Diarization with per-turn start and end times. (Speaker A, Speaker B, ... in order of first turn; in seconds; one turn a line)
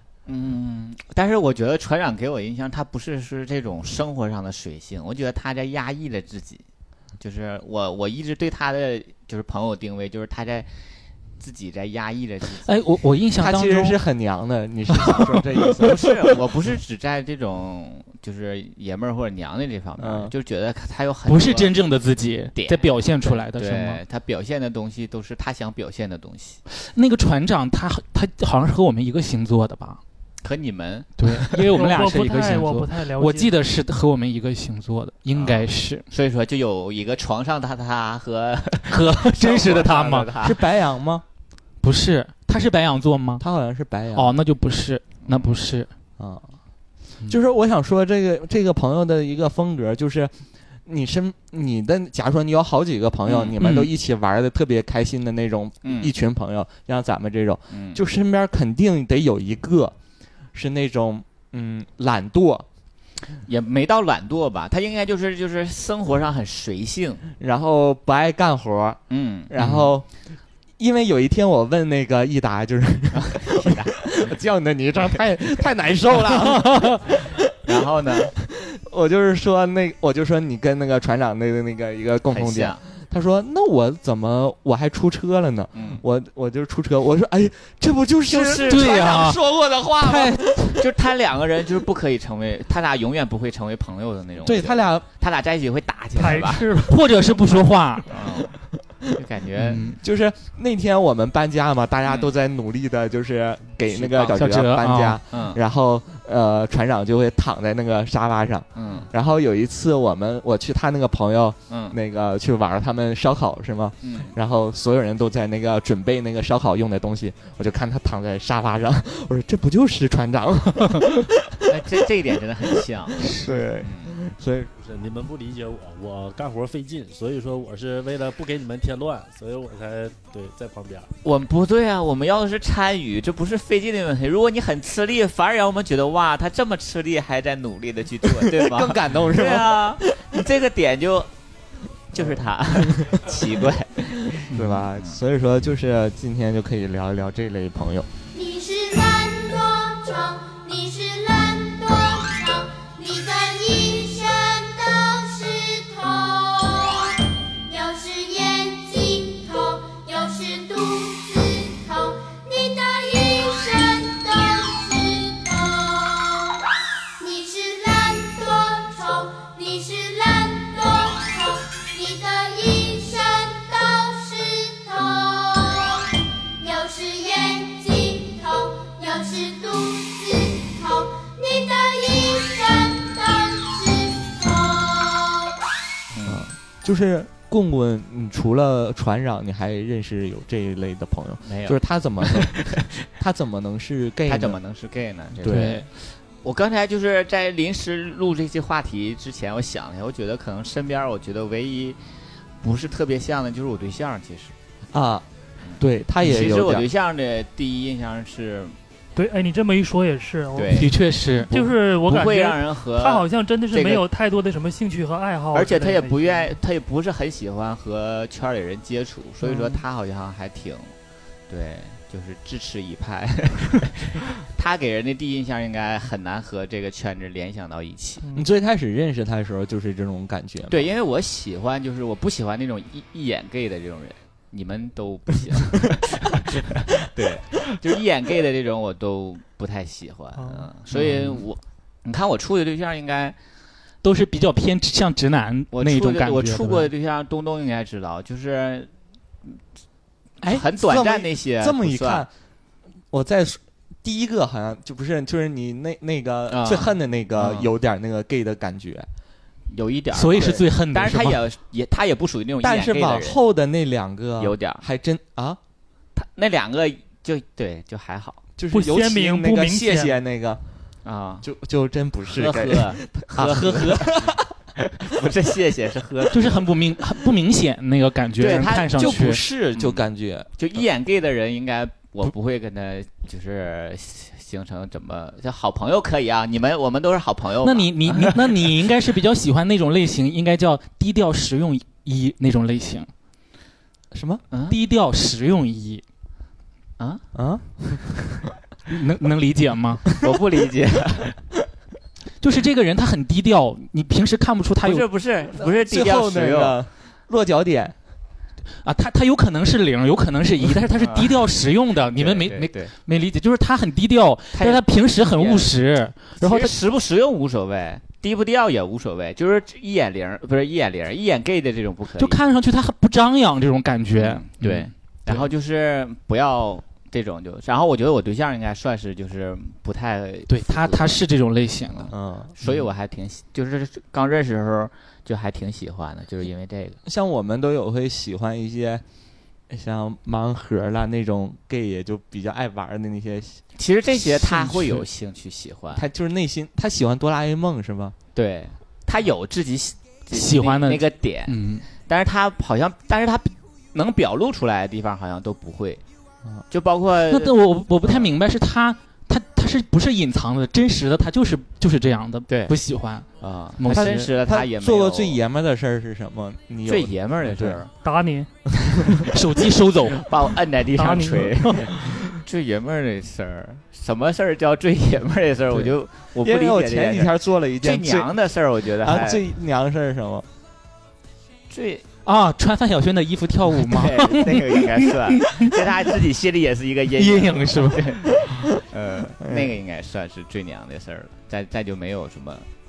Speaker A: 0.2-6.6
Speaker A: 7.2-10.7
Speaker A: 11.4-12.7
Speaker B: 12.6-14.0
Speaker C: 13.3-16.4
Speaker A: 15.8-21.7
Speaker C: 20.0-20.3
Speaker B: 21.3-24.0
Speaker A: 22.6-26.6
Speaker B: 26.8-30.0
Speaker A: 30.4-31.2
Speaker B: 31.2-36.0
Speaker D: 31.7-33.5
Speaker A: 35.3-40.6
Speaker B: 38.9-40.3
Speaker C: 40.4-41.2
Speaker B: 41.8-43.4
Speaker C: 43.4-44.3
Speaker B: 44.1-45.9
Speaker A: 45.2-45.5
Speaker C: 47.3-50.3
Speaker C: 50.9-59.9
Speaker A: 53.3-53.5
Speaker B: 53.6-53.9
Speaker A: 55.8-56.1
Speaker A: 57.7-58.0
Speaker C: 60.5-62.6
Speaker A: 63.5-67.2
Speaker C: 67.4-70.1
Speaker A: 69.1-69.5
Speaker B: 69.6-69.9
Speaker C: 70.8-90.8
Speaker A: 73.1-74.3
Speaker A: 77.7-78.3
Speaker A: 82.3-82.8
Speaker A: 85.7-86.0
Speaker A: 88.3-89.1
Speaker B: 88.7-89.4
Speaker B: 90.0-90.7
Speaker A: 90.8-96.7
Speaker C: 94.4-95.0
Speaker D: 96.2-97.0
Speaker B: 96.9-98.1
Speaker A: 98.1-98.5
Speaker A: 99.1-99.9
Speaker B: 99.6-100.0
Speaker C: 100.0-121.6
Speaker A: 102.0-102.3
Speaker A: 103.9-104.4
Speaker B: 104.4-105.2
Speaker A: 105.3-105.6
Speaker A: 108.7-109.1
Speaker A: 111.7-112.0
Speaker A: 114.0-114.3
Speaker A: 121.7-124.1
Speaker B: 123.2-123.5
Speaker C: 123.2-124.7
Speaker E: 124.8-131.1
Speaker A: 131.2-141.3
Speaker C: 138.3-140.2
Speaker A: 142.1-145.2
Speaker C: 142.2-143.3
Speaker C: 144.2-148.1
Speaker F: 148.3-166.6
Speaker F: 167.2-185.6
Speaker A: 186.1-186.4
Speaker C: 186.2-194.6
Speaker A: 191.4-192.7
Speaker A: 194.3-195.9
Speaker C: 195.4-195.8
Speaker B: 195.5-195.9
Speaker A: 196.4-202.0
Speaker A: 202.6-204.5
Speaker C: 204.9-205.2
Speaker A: 205.6-208.7
Speaker C: 205.8-206.8
Speaker D: 209.2-216.5
Speaker A: 210.5-210.9
Speaker B: 210.7-211.7
Speaker A: 212.1-214.0
Speaker A: 215.5-220.9
Speaker D: 219.4-219.8
Speaker A: 221.5-228.2
Speaker D: 228.2-228.5
Speaker C: 228.3-230.9
Speaker A: 230.7-243.3
Speaker D: 240.3-240.7
Speaker C: 241.0-241.3
Speaker B: 244.0-246.9
Speaker A: 245.7-248.9
Speaker C: 250.4-252.3
Speaker A: 250.5-252.2
Speaker C: 253.1-259.1
Speaker A: 256.5-257.7
Speaker A: 259.7-263.4
Speaker B: 260.1-261.4
Speaker C: 262.6-265.6
Speaker A: 264.4-264.8
Speaker A: 266.1-268.4
Speaker C: 268.6-270.6
Speaker D: 268.7-270.1
Speaker A: 271.0-271.4
Speaker C: 271.4-274.5
Speaker A: 272.3-274.3
Speaker A: 275.0-276.6
Speaker B: 276.3-279.4
Speaker A: 278.4-280.0
Speaker C: 278.4-280.5
Speaker A: 280.6-288.5
Speaker B: 287.6-293.1
Speaker C: 294.1-294.4
Speaker A: 294.5-294.8
Speaker B: 294.7-296.0
Speaker A: 297.0-297.2
Speaker C: 297.3-298.4
Speaker B: 298.9-300.1
Speaker A: 300.2-301.3
Speaker B: 302.4-305.0
Speaker A: 304.8-306.8
Speaker C: 305.6-307.9
Speaker B: 308.8-316.7
Speaker A: 311.0-311.3
Speaker A: 312.1-312.9
Speaker A: 314.5-315.7
Speaker A: 316.4-322.4
Speaker B: 322.2-325.5
Speaker A: 324.2-331.2
Speaker B: 330.5-332.1
Speaker A: 331.9-337.0
Speaker C: 332.1-332.5
Speaker C: 337.1-339.0
Speaker C: 339.7-343.6
Speaker A: 343.8-346.1
Speaker C: 344.2-345.0
Speaker C: 345.9-348.1
Speaker A: 348.3-356.0
Speaker B: 350.3-351.8
Speaker A: 356.7-358.3
Speaker B: 357.3-364.3
Speaker A: 362.5-362.7
Speaker A: 363.4-365.4
Speaker C: 363.9-367.8
Speaker A: 366.9-367.9
Speaker D: 368.0-368.5
Speaker B: 369.3-370.2
Speaker A: 370.2-379.4
Speaker D: 371.0-372.0
Speaker C: 376.4-378.3
Speaker C: 378.9-380.4
Speaker A: 381.7-382.0
Speaker B: 382.2-385.7
Speaker A: 383.9-392.7
Speaker B: 387.2-388.5
Speaker C: 389.4-389.7